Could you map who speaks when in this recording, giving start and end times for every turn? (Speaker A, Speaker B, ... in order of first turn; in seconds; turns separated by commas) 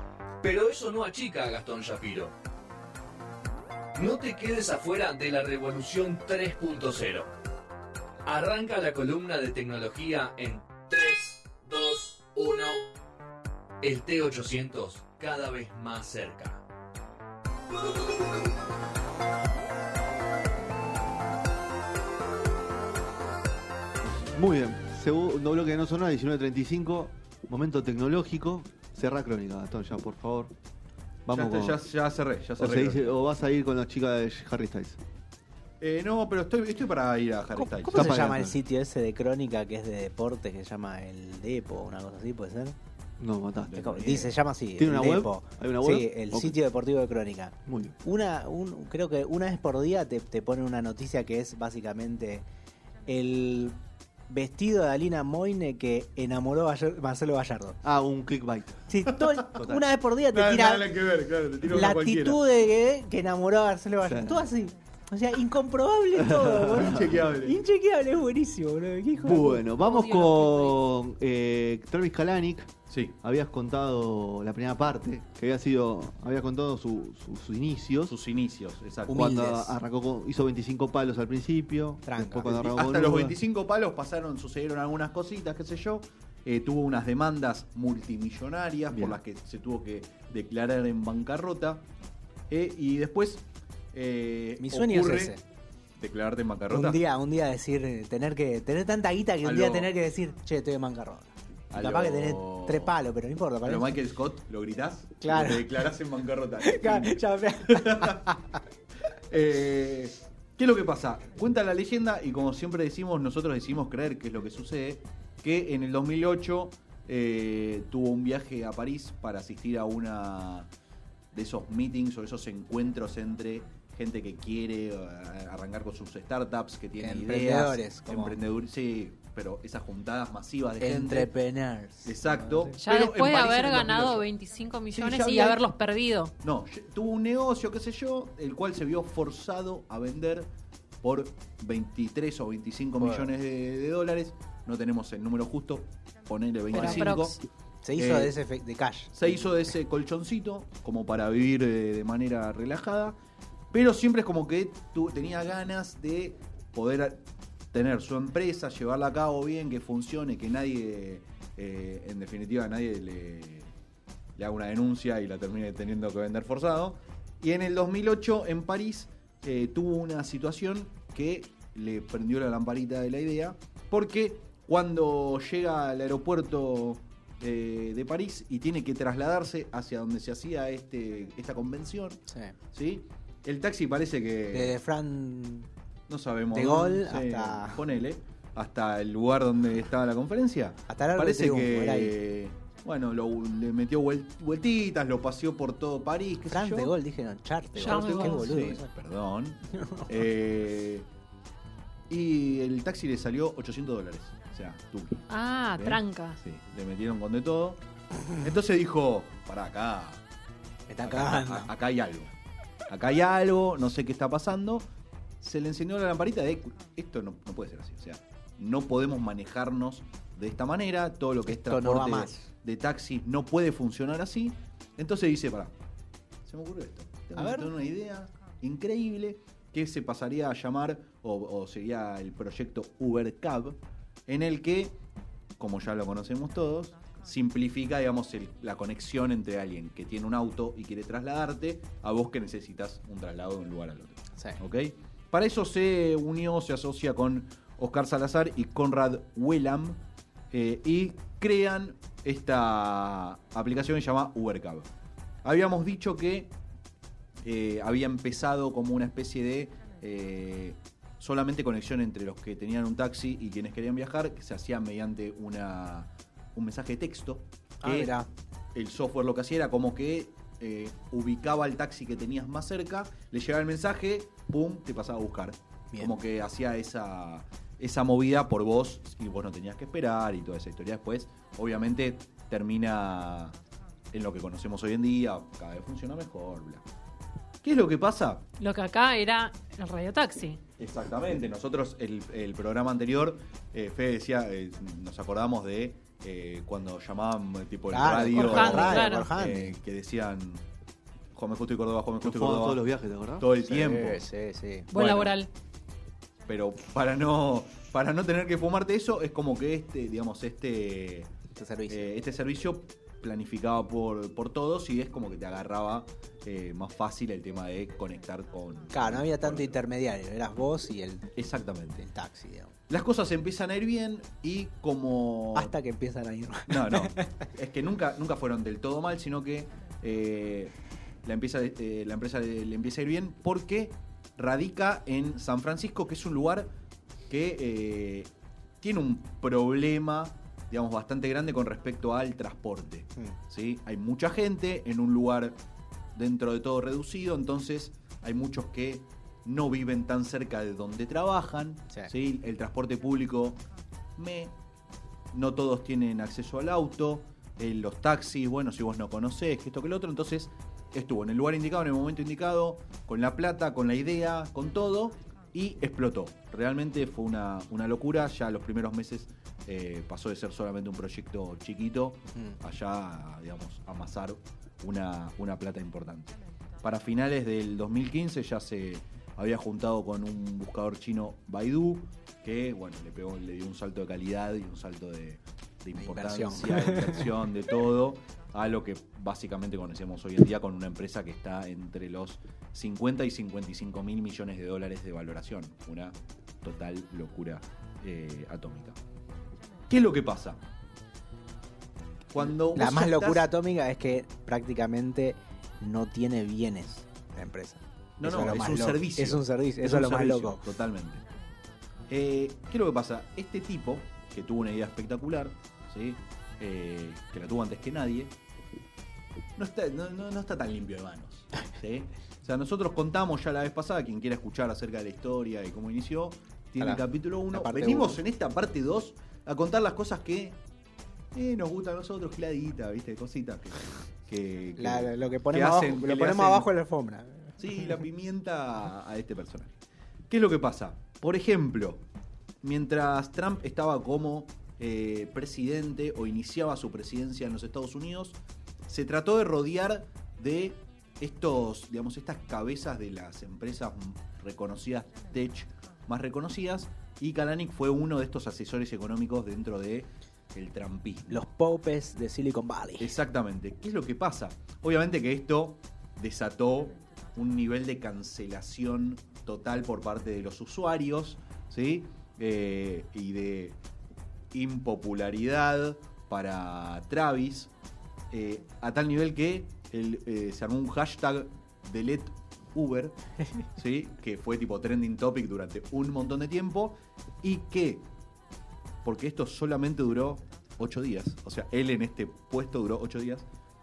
Speaker A: 0.4-2.3, Speaker A: 3.9-7.3, Speaker A: 8.2-12.8, Speaker A: 13.8-16.6, Speaker A: 17.8-18.3, Speaker B: 24.3-30.5, Speaker B: 31.2-31.8, Speaker C: 31.3-33.2, Speaker B: 32.6-35.0, Speaker C: 35.8-38.3, Speaker D: 37.9-42.7, Speaker B: 37.9-38.6, Speaker B: 43.2-46.6, Speaker C: 43.6-44.2, Speaker D: 43.7-52.5, Speaker B: 47.6-48.0, Speaker D: 53.0-53.8, Speaker D: 54.3-57.8, Speaker B: 57.8-58.8, Speaker D: 58.9-60.9, Speaker C: 59.1-59.6, Speaker B: 59.5-59.9, Speaker C: 60.3-62.4, Speaker D: 61.7-69.6, Speaker B: 64.0-64.5, Speaker B: 66.2-67.1, Speaker C: 66.7-67.6, Speaker B: 69.2-78.1, Speaker E: 69.8-70.8, Speaker C: 72.9-73.2, Speaker C: 78.1-79.3, Speaker D: 79.1-79.7, Speaker B: 79.1-83.3, Speaker D: 82.0-82.5, Speaker C: 82.4-91.8, Speaker B: 88.9-89.2, Speaker C: 92.5-95.3, Speaker D: 94.6-95.4, Speaker C: 96.0-97.0, Speaker D: 96.7-103.9, Speaker C: 99.4-99.9, Speaker C: 101.7-102.9, Speaker C: 103.6-108.4, Speaker D: 105.2-105.8, Speaker D: 106.6-108.4, Speaker C: 109.1-120.7, Speaker C: 121.3-131.3, Speaker D: 127.0-128.4, Speaker D: 130.8-132.7, Speaker C: 132.0-134.3, Speaker E: 132.8-136.3, Speaker C: 134.9-135.6, Speaker C: 136.4-140.5, Speaker C: 141.0-147.4, Speaker D: 143.0-143.2, Speaker E: 146.7-147.4, Speaker D: 146.8-147.1, Speaker D: 147.8-149.5, Speaker C: 147.9-148.3, Speaker C: 149.1-153.2, Speaker C: 153.7-163.7, Speaker C: 164.3-182.2, Speaker D: 182.3-182.5, Speaker C: 182.7-184.8, Speaker D: 184.5-185.7, Speaker C: 186.1-196.9, Speaker D: 186.5-187.8, Speaker D: 190.9-192.2, Speaker D: 196.5-198.9, Speaker C: 197.7-201.1, Speaker E: 197.8-198.5, Speaker D: 199.8-200.1, Speaker C: 202.1-207.8, Speaker E: 205.3-206.4, Speaker C: 208.3-210.2, Speaker D: 210.9-211.7, Speaker C: 211.0-212.3, Speaker C: 212.9-214.8, Speaker C: 215.4-225.7, Speaker D: 221.5-222.5, Speaker C: 226.4-234.9, Speaker D: 227.4-227.7, Speaker C: 235.6-250.0, Speaker C: 250.5-254.9, Speaker C: 255.4-256.5, Speaker C: 257.4-268.1, Speaker D: 267.8-268.3, Speaker C: 268.7-283.5, Speaker D: 275.9-276.2, Speaker C: 284.1-286.8, Speaker C: 287.6-288.4, Speaker E: 288.6-290.6, Speaker C: 290.8-300.6, Speaker D: 297.9-299.8, Speaker E: 298.3-299.3, Speaker C: 301.3-302.8, Speaker B: 302.2-303.5, Speaker C: 303.4-304.2, Speaker D: 303.6-304.9, Speaker E: 304.9-305.5, Speaker C: 304.9-305.3, Speaker C: 306.5-311.3, Speaker D: 311.6-312.1, Speaker C: 311.9-319.8, Speaker D: 318.9-321.3, Speaker C: 321.3-322.1, Speaker D: 322.0-322.7, Speaker C: 322.9-325.7, Speaker D: 325.5-327.5, Speaker C: 326.7-336.7, Speaker C: 337.3-338.3, Speaker C: 338.8-345.5, Speaker C: 346.1-353.6, Speaker C: 354.1-354.5, Speaker C: 355.3-399.0, Speaker D: 385.9-387.3, Speaker C: 399.9-400.6, Speaker C: 402.3-403.5, Speaker D: 402.7-410.7, Speaker C: 408.2-411.2, Speaker C: 412.1-418.3, Speaker C: 419.6-430.6, Speaker D: 426.8-428.2, Speaker C: 431.3-436.7, Speaker D: 434.8-438.0, Speaker C: 437.6-439.7, Speaker C: 440.3-442.0, Speaker C: 442.6-461.4, Speaker D: 461.3-463.1, Speaker C: 463.0-473.8, Speaker C: 474.5-477.7, Speaker C: 478.3-483.1, Speaker C: 483.8-488.0, Speaker C: 489.0-493.4